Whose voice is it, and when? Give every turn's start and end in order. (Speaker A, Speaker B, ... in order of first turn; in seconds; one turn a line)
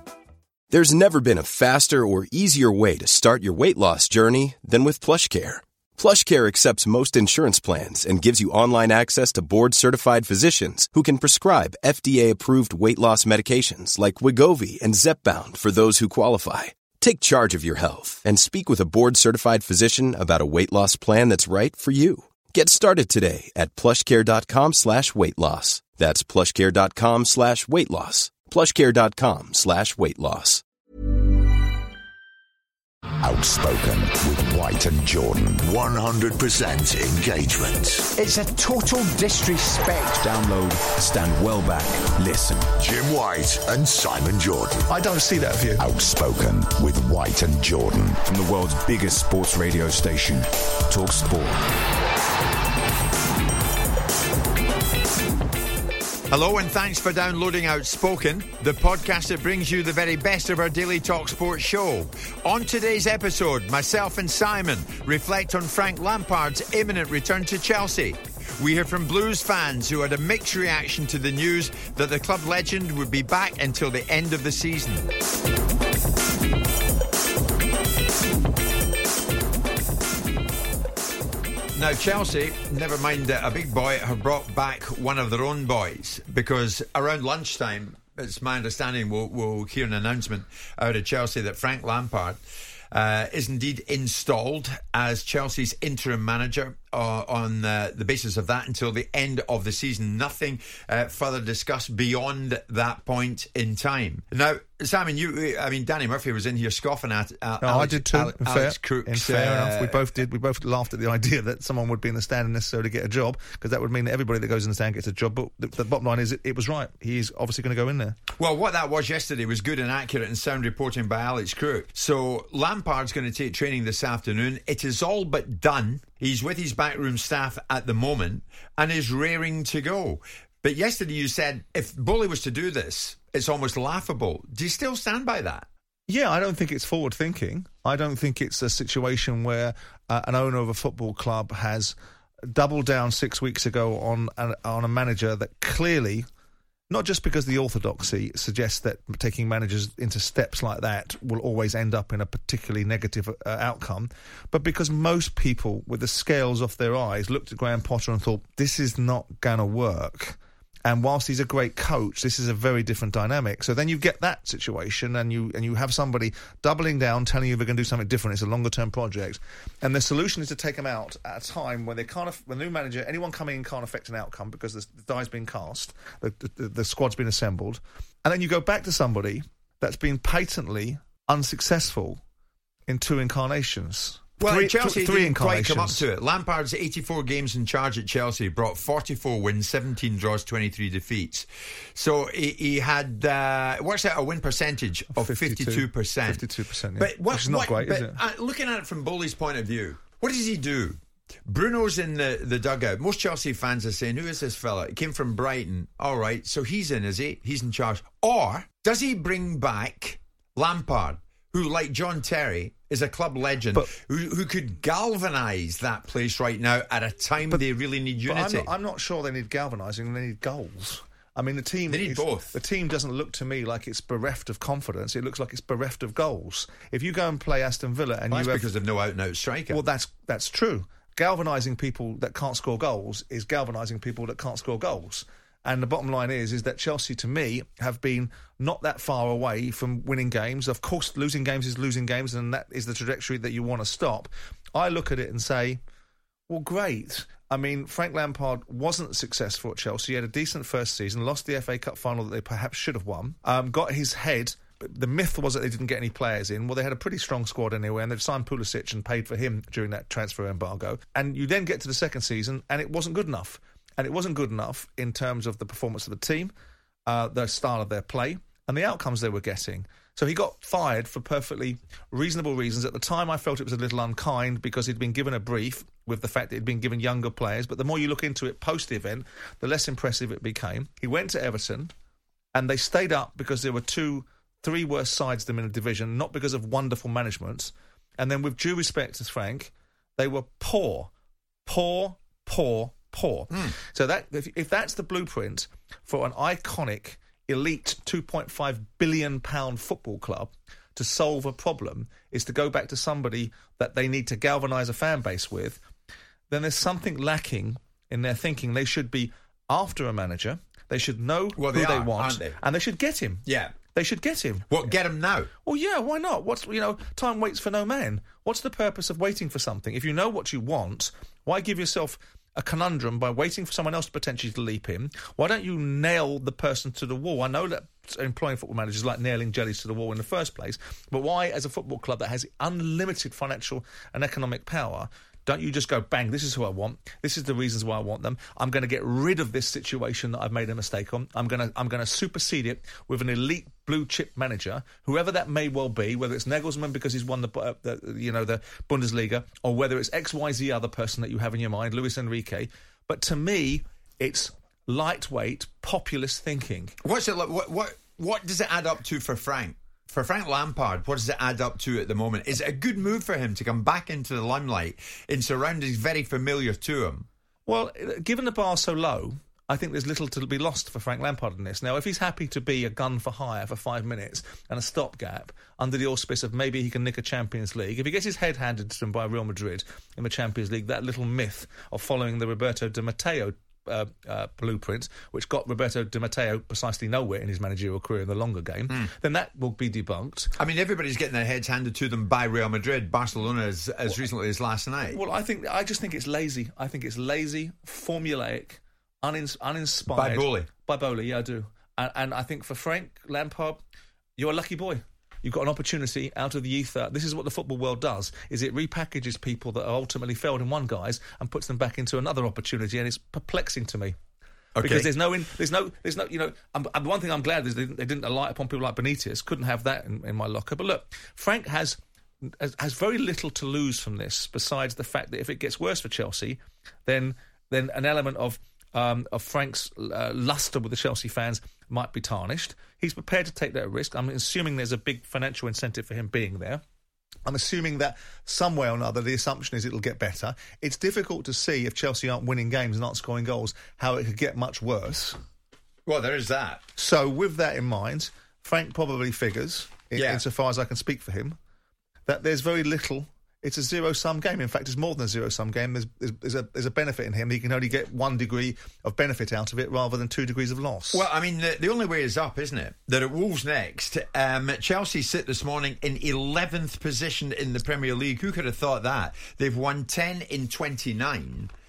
Speaker A: 0.7-30.6
Speaker B: 33.2-40.1
Speaker C: 38.6-38.9
Speaker C: 40.1-42.7
Speaker B: 42.8-44.8
Speaker D: 44.9-45.8
Speaker B: 45.8-48.2
Speaker C: 48.2-51.6
Speaker E: 56.3-75.1
Speaker E: 81.7-92.4
Speaker E: 92.9-110.0
Speaker D: 107.6-118.2
Speaker E: 118.4-135.7
Speaker D: 136.1-141.9
Speaker D: 142.5-146.2
Speaker D: 146.9-182.2
Speaker D: 182.9-186.0
Speaker E: 184.4-196.4
Speaker D: 195.1-198.2
Speaker E: 197.0-218.7
Speaker D: 218.2-228.7
Speaker E: 221.9-222.6
Speaker E: 228.3-229.8
Speaker D: 229.7-245.8
Speaker D: 246.5-266.5
Speaker D: 267.1-281.9
Speaker D: 282.5-291.1
Speaker D: 291.6-305.8
Speaker D: 306.5-314.7
Speaker E: 311.6-312.6
Speaker E: 313.4-313.7
Speaker E: 314.7-315.5
Speaker D: 315.6-356.9
Speaker E: 357.0-367.3
Speaker D: 367.7-390.5
Speaker E: 390.6-395.2
Speaker D: 395.1-403.8
Speaker E: 400.1-400.7
Speaker D: 404.4-414.1
Speaker E: 414.7-415.1
Speaker D: 414.8-436.8
Speaker D: 437.4-445.4
Speaker E: 446.1-446.8
Speaker D: 446.9-451.6
Speaker E: 450.1-450.4
Speaker D: 452.3-461.2
Speaker E: 461.1-471.7